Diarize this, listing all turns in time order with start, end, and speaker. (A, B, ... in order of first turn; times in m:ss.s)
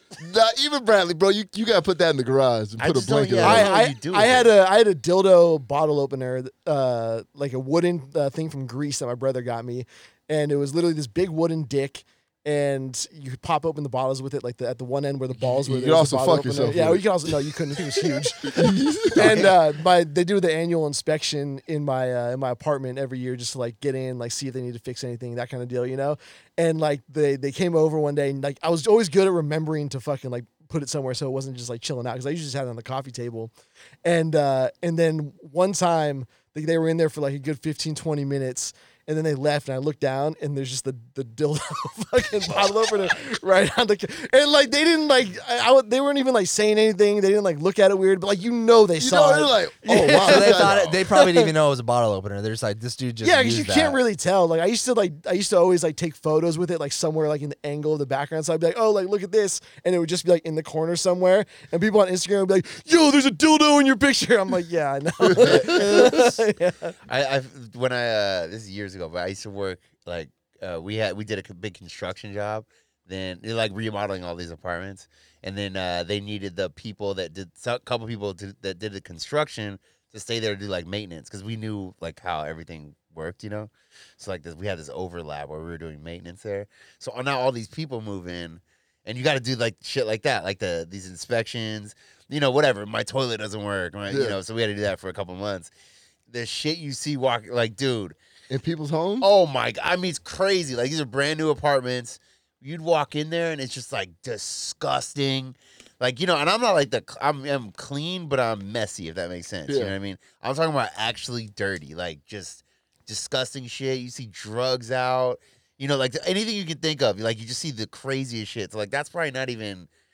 0:00.2-0:03.7 A
0:02.8-0:04.5 B
0:03.4-0:33.5 C
0:15.4-0:19.6 A
0:19.2-0:19.5 D
0:34.0-0:51.5 C
0:49.0-0:50.9 A
0:50.0-0:54.0 D
0:50.7-0:51.0 B
0:53.2-1:07.0 C
1:05.2-1:05.8 A
1:05.4-1:06.4 B
1:07.1-1:35.7 B
1:34.1-1:34.4 A
1:36.3-1:38.2 B
1:38.5-1:39.3 A
1:39.2-1:59.9 B
1:49.7-1:50.0 A